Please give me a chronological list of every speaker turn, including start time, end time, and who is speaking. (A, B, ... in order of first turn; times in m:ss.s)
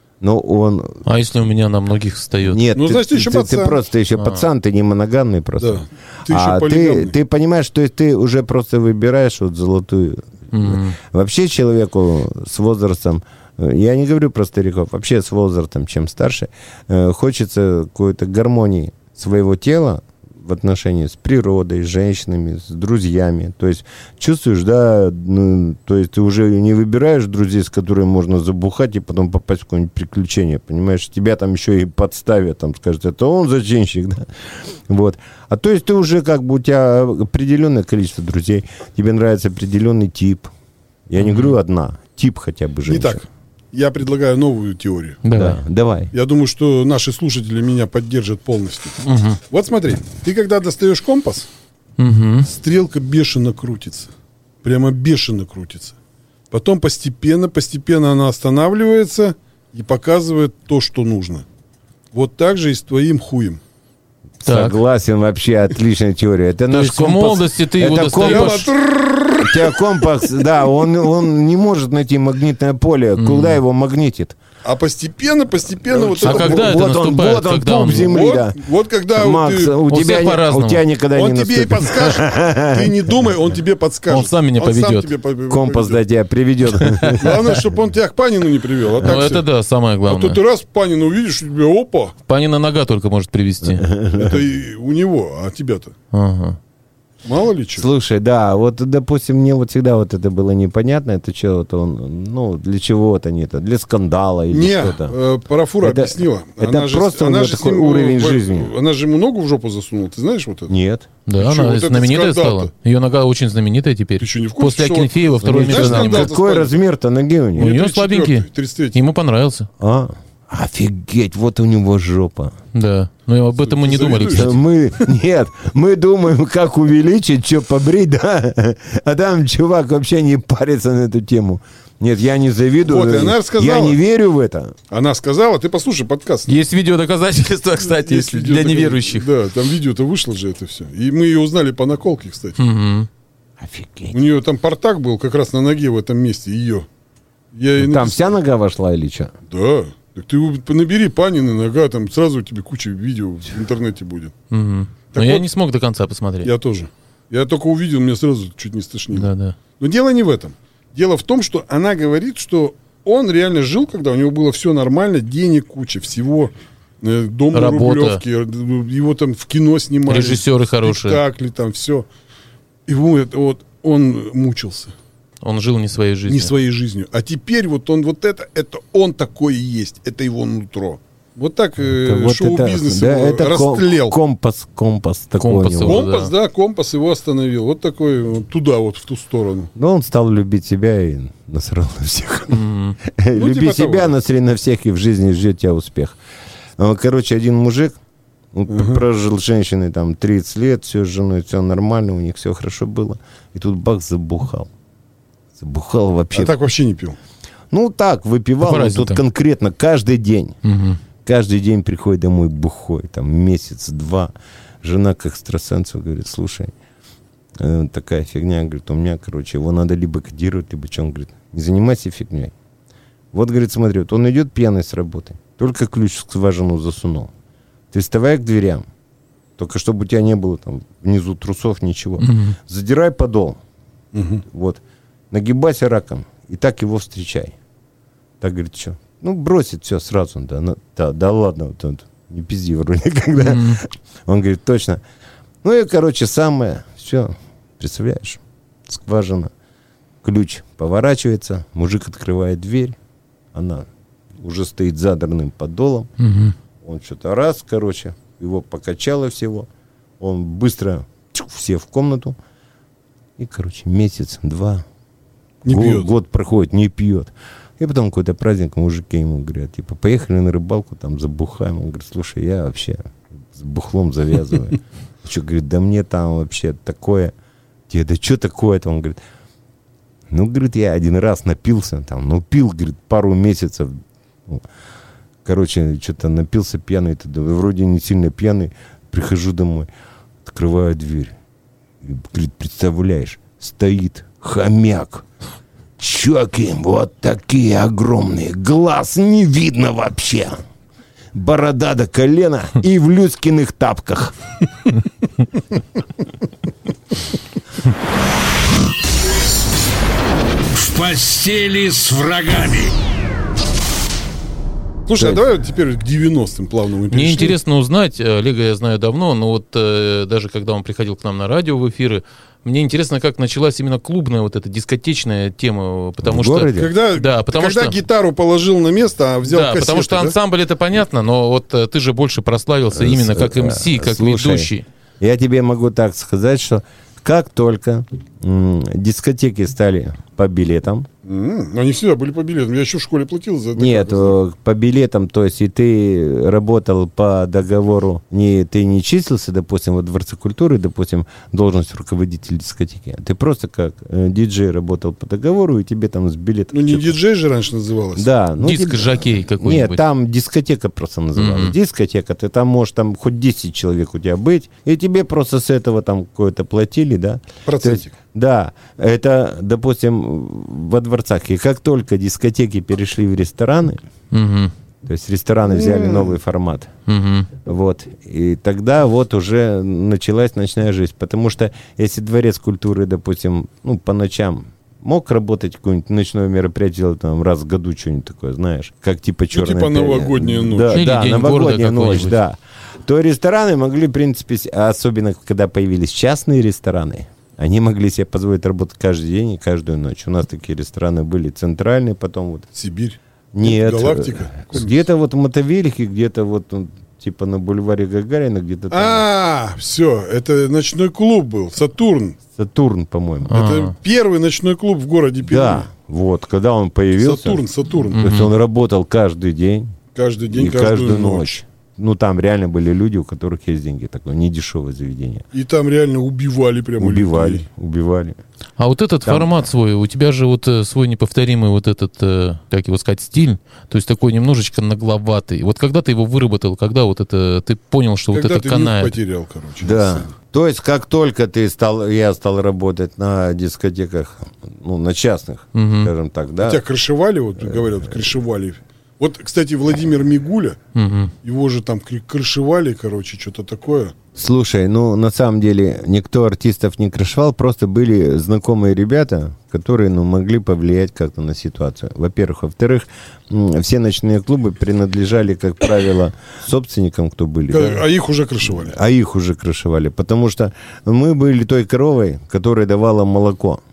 0:00.2-0:01.0 A
0:01.0-0:02.6 B
0:02.4-0:34.3 A
0:02.7-0:03.8 C
0:04.2-0:04.4 B
0:05.6-0:07.1 C
0:10.5-0:11.0 B
0:34.9-0:40.5 A
0:41.1-0:43.2 A
0:41.2-0:41.5 B
0:42.9-0:45.2 C
0:45.2-0:45.6 B
0:45.3-0:46.1 A
0:46.1-0:51.5 C
0:49.0-0:49.4 B
0:52.0-0:52.5 B
0:52.4-0:54.1 C
0:54.6-0:55.9 C
0:56.5-1:01.4 C
1:02.1-1:03.6 C
1:04.4-1:08.7 A
1:04.4-1:04.8 B
1:06.7-1:08.7 B
1:08.0-1:10.1 C
1:09.4-1:14.4 A
1:13.2-1:13.6 B
1:14.6-1:16.8 C
1:15.9-1:18.6 A
1:16.2-1:18.1 B
1:17.9-1:19.8 C
1:19.1-1:23.1 A
1:19.9-1:20.8 B
1:21.1-1:26.0 C
1:24.1-1:25.1 B
1:25.5-1:27.6 A
1:26.8-1:27.2 B
1:27.2-1:29.4 C
1:29.0-1:30.4 B
1:30.1-1:32.1 C
1:32.3-1:33.9 B
1:33.6-1:34.4 A
1:34.2-1:35.9 C
1:36.1-1:36.6 B
1:37.2-1:37.9 C
1:37.8-1:45.2 A
1:44.5-1:50.7 C
1:45.8-1:48.7 A
1:50.7-1:51.1 A
1:51.2-1:56.3 B
1:51.4-1:52.7 C
1:54.2-1:56.8 C
1:55.4-1:57.7 A
1:57.6-1:59.0 C
1:57.6-1:59.7 B
1:59.8-2:02.6 A
2:02.7-2:04.6 B
2:03.6-2:05.1 C
2:04.3-2:14.7 A
2:12.8-2:14.0 C
2:14.9-2:16.5 C
2:16.5-2:19.3 B
2:17.8-2:22.6 C
2:22.6-2:23.1 B
2:23.6-2:24.2 A
2:24.1-2:26.9 C
2:27.5-2:28.3 C
2:27.8-2:29.3 A
2:29.5-2:34.3 C
2:34.5-2:36.5 B
2:35.1-2:35.5 C
2:36.4-2:52.1 C
2:39.1-2:39.6 B
2:47.5-2:48.2 B
2:50.1-2:51.2 B
2:52.9-2:54.9 C
2:55.4-2:56.5 B
2:56.3-3:04.2 C
3:02.0-3:06.1 A
3:05.4-3:06.3 B
3:05.8-3:09.7 C
3:09.8-3:16.2 A
3:12.5-3:13.0 B
3:13.3-3:14.1 C
3:16.8-3:18.0 A
3:18.5-3:24.7 A
3:18.7-3:19.0 C
3:25.6-3:26.5 A
3:26.3-3:27.2 C
3:27.7-3:30.6 A
3:28.6-3:29.2 B
3:30.6-3:31.0 B
3:31.2-3:36.7 A
3:37.6-3:42.5 A
3:43.3-3:47.3 A
3:47.9-3:48.8 A
3:49.6-3:53.6 A
3:52.2-3:52.6 B
3:54.1-3:54.4 C
3:54.4-3:57.6 A
3:58.4-4:05.0 A
4:03.4-4:03.8 B
4:05.6-4:09.5 A
4:10.2-4:13.0 A
4:13.5-4:16.1 A
4:16.2-4:16.6 B
4:16.8-4:19.7 A
4:20.2-4:22.4 A
4:23.4-4:24.8 A
4:25.6-4:26.1 C
4:25.7-4:37.3 A
4:37.9-4:39.2 A
4:40.3-4:44.6 A
4:45.4-4:49.9 A
4:50.4-4:51.3 A
4:52.0-4:55.2 A
4:56.0-5:00.6 A
5:01.3-5:04.4 A
5:10.7-5:13.0 D
5:15.1-5:17.6 C
5:17.1-5:28.0 B
5:26.2-5:26.9 A
5:26.7-5:30.4 C
5:29.4-5:34.8 B
5:32.9-5:34.7 A
5:35.2-5:41.1 A
5:41.2-5:44.4 C
5:43.8-5:57.1 A
5:56.7-5:58.3 C
5:58.2-6:14.0 A
5:58.6-6:00.0 B
6:01.4-6:01.7 B
6:07.6-6:08.1 C
6:14.3-6:14.7 B
6:15.0-6:16.9 A
6:15.7-6:16.4 C
6:17.1-6:17.5 B
6:17.6-6:42.6 A
6:29.5-6:31.0 C
6:30.9-6:32.4 B
6:42.7-6:45.0 C
6:43.5-6:49.2 A
6:48.9-6:52.4 C
6:52.5-6:53.5 A
6:53.5-6:53.9 B
6:53.5-6:55.9 C
6:55.4-6:57.6 A
6:57.2-6:58.2 C
6:58.1-6:58.5 B
6:58.2-6:59.9 A
7:00.1-7:01.6 C
7:00.5-7:05.4 A
7:05.5-7:07.6 C
7:07.0-7:08.4 A
7:08.8-7:19.1 B
7:09.2-7:09.5 A
7:18.3-7:20.2 C
7:19.8-7:26.8 A
7:25.7-7:26.1 B
7:26.6-7:30.8 C
7:30.9-7:31.3 B
7:31.4-7:34.1 C
7:34.4-7:48.0 A
7:47.7-7:49.0 C
7:48.8-7:53.8 A